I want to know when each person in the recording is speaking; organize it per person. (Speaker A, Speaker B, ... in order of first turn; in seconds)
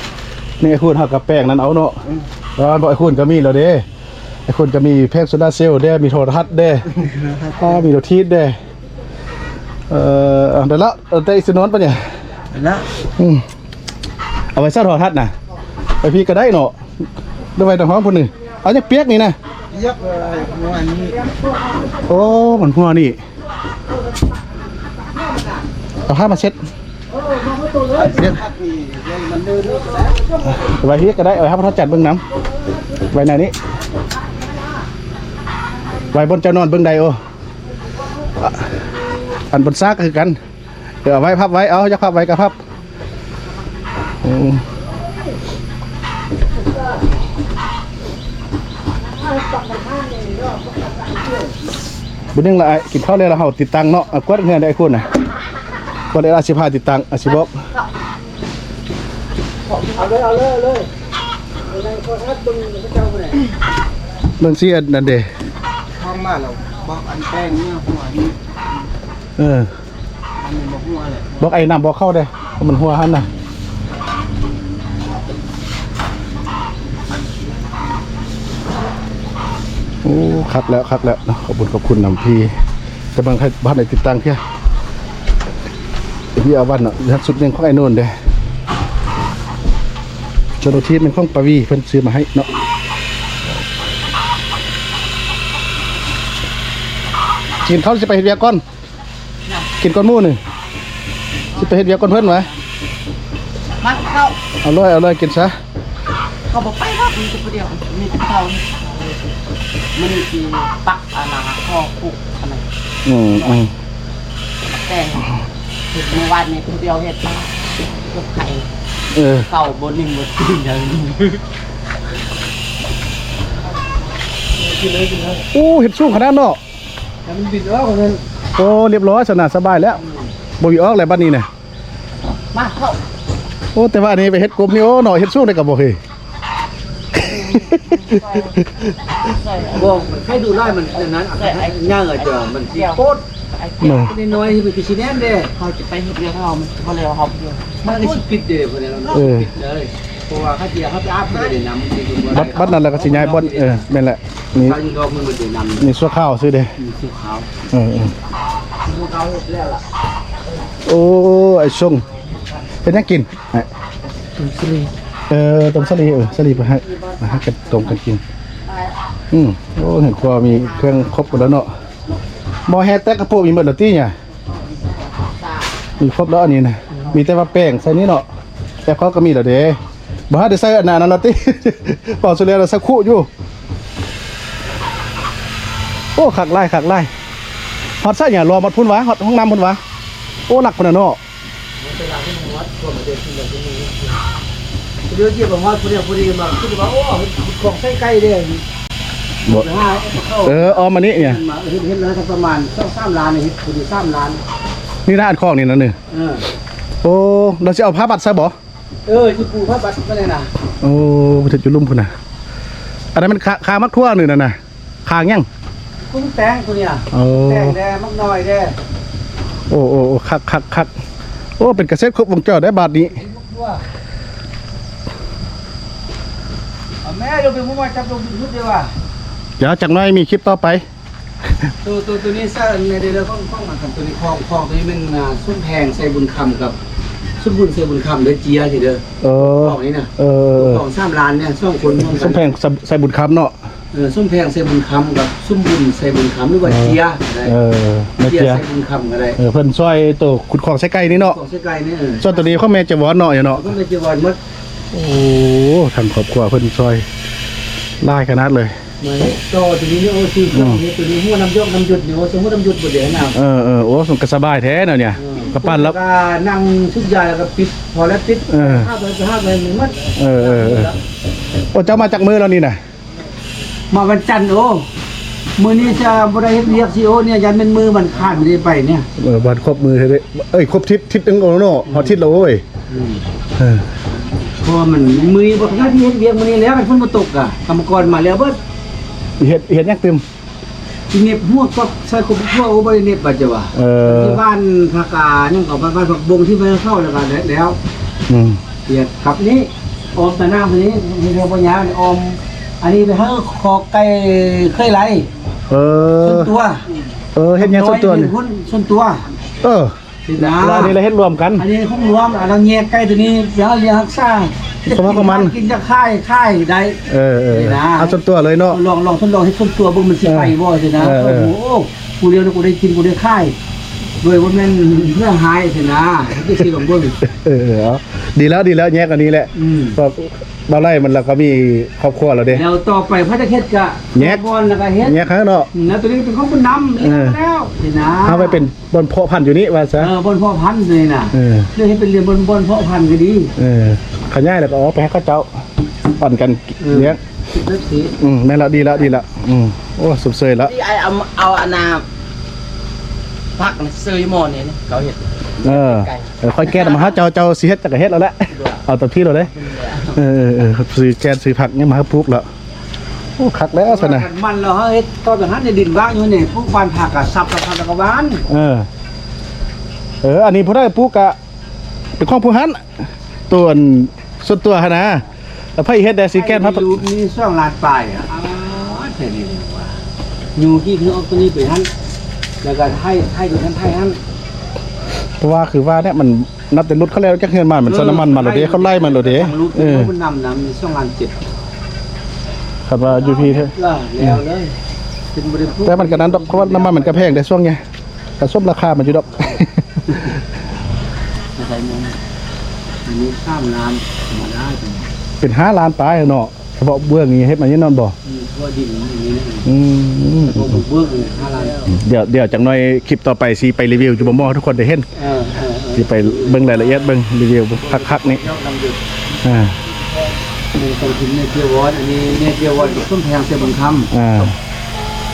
Speaker A: 0.6-2.0, 2.6-3.8, 4.5-8.6, 9.9-12.0, 13.2-13.4, 14.5-15.3, 16.0-16.8, 17.6-19.4, 22.0-23.2, 26.1-26.6, 28.0-28.4, 30.5-32.2, 33.1-33.5, 36.1-37.2, 39.5-40.4, 41.0-42.5, 44.2-44.6, 52.3-55.1, 56.1-57.6, 64.4-65.3, 69.4-69.7, 71.4-73.2, 80.0-82.5, 83.1-84.4, 86.3-88.1, 90.6-92.5, 97.6-98.6, 99.8-100.4, 101.5-102.5, 104.6-105.5, 113.0-113.7, 119.1-119.5, 125.5-126.6, 128.6-130.0, 130.6-131.5, 133.7-136.0, 137.1-138.9, 143.8-144.1, 149.1-149.5, 152.3-154.8, 155.8-156.7, 157.7-158.1, 160.8-162.0, 162.8-163.7, 165.3-168.2, 169.3-171.7, 172.7-174.1, 176.0-178.2, 178.8-179.8, 180.3-183.3, 186.2-187.1, 188.0-189.8, 190.5-191.2, 200.4-201.4, 205.1-205.9, 207.0-208.5, 210.8-212.1, 213.1-215.4, 217.1-217.8, 219.7-220.9, 221.6-223.2, 229.6-230.8, 239.2-240.8, 242.0-243.5, 246.7-248.6, 249.3-251.4, 252.2-253.7, 254.9-257.0, 258.0-258.7, 260.5-260.8, 263.3-265.9, 268.5-268.9, 270.2-270.9, 271.7-272.8, 279.2-282.6, 283.6-283.8, 289.4-290.2, 293.7-294.4, 298.3-298.6, 305.7-306.5, 307.4-308.3, 309.6-311.7, 314.9-315.5, 317.1-318.8, 320.2-321.5, 327.2-332.6, 334.1-334.4, 335.0-335.7, 337.0-337.4, 338.2-340.1, 341.3-341.7, 343.6-345.5, 346.2-347.2, 348.2-350.7, 355.6-359.5, 360.1-362.4, 363.4-364.3, 368.5-368.9, 370.2-371.4, 372.2-372.8, 373.5-375.2, 375.8-377.0, 385.4-390.1, 392.9-394.4, 395.8-397.8, 398.4-400.3, 405.4-408.1, 409.6-410.6, 411.9-415.1, 415.9-418.4, 419.4-419.8, 424.1-424.5
Speaker B: 19.8-21.1, 66.0-68.3, 70.4-71.4, 101.5-102.5, 103.8-104.4, 106.5-109.2, 109.9-112.6, 113.3-113.6, 114.8-115.4, 115.9-118.7, 119.4-121.4, 132.5-133.0, 137.4-138.5, 139.2-140.0, 140.7-143.0, 143.6-144.2, 145.5-148.2, 166.0-167.2, 168.7-168.9, 170.3-171.6, 174.7-175.7, 350.6-352.0, 353.6-357.2, 358.5-358.8, 359.4-360.2, 401.6-402.2
Speaker C: 27.1-28.5, 29.1-30.4, 49.2-51.5, 59.8-60.9, 61.6-63.5, 124.6-125.4, 127.2-128.2, 139.7-143.2, 143.9-145.5, 147.8-153.8, 154.6-155.9, 156.8-157.5, 158.9-159.8, 164.4-164.9, 191.8-194.1, 195.1-198.6, 199.4-204.4, 206.1-206.4, 209.1-210.5, 216.0-218.8, 223.1-223.8, 227.0-228.9, 231.8-236.8, 237.4-242.4, 243.9-247.5, 248.2-249.4, 251.1-252.4, 253.5-254.4, 259.0-263.4, 265.1-270.9, 273.9-274.9, 275.6-279.1, 281.9-282.2, 282.9-283.2, 284.6-288.6, 291.1-297.8, 298.9-305.3, 306.2-306.8, 307.6-309.2, 310.3-311.0, 311.6-318.2, 318.7-323.6, 324.2-327.2, 329.5-330.0, 332.5-335.2, 335.7-338.6, 339.9-343.5, 346.8-348.2, 363.8-368.4, 376.3-380.0, 380.6-381.9, 382.6-384.2, 387.8-391.4, 393.1-394.7, 395.3-397.4, 403.0-405.1, 408.2-409.7, 410.4-411.9, 415.1-416.9, 417.8-419.0, 420.7-424.4